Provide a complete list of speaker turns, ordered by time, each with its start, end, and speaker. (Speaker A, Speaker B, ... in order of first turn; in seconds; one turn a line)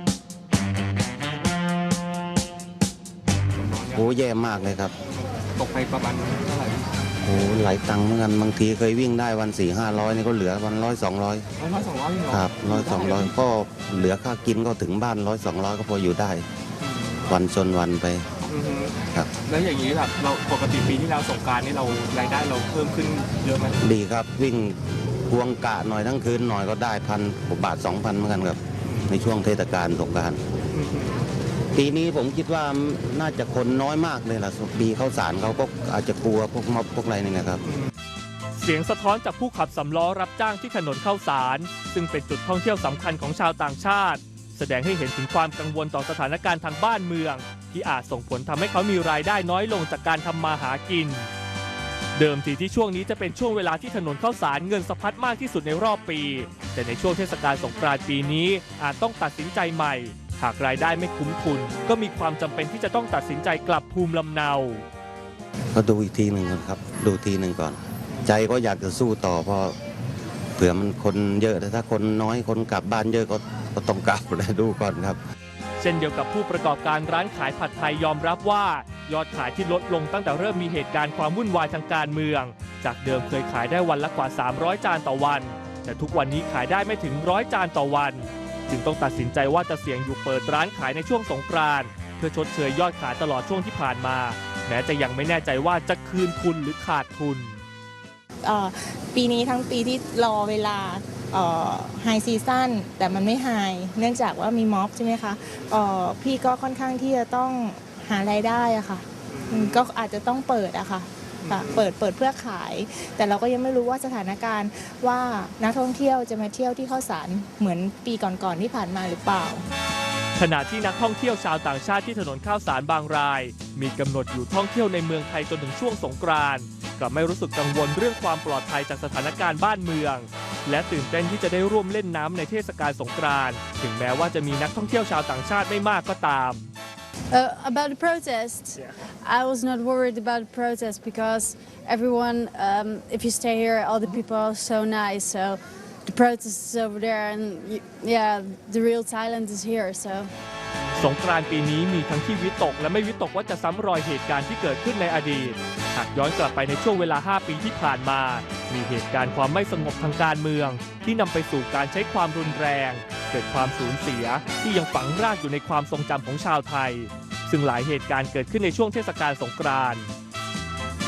Speaker A: 3.5-4.1
Speaker B: 4.0-4.9
Speaker A: 5.1-7.0
Speaker B: 7.2-11.5
Speaker A: 11.6-13.4
Speaker B: 12.3-16.5
Speaker A: 16.8-17.4
Speaker B: 17.3-18.3
Speaker A: 18.5-23.8
Speaker B: 23.8-30.4
Speaker A: 28.8-29.2
Speaker A: 30.7-31.3
Speaker B: 31.8-37.6
Speaker C: 38.6-51.3
Speaker C: 52.1-64.9
Speaker B: 65.7-69.8
Speaker B: 70.6-75.2
Speaker C: 75.8-97.6
Speaker D: 98.4-119.7
Speaker A: 109.3-109.9
Speaker A: 111.4-111.9
Speaker C: 120.4-136.7
Speaker E: 137.3-150.3
Speaker C: 151.0-170.1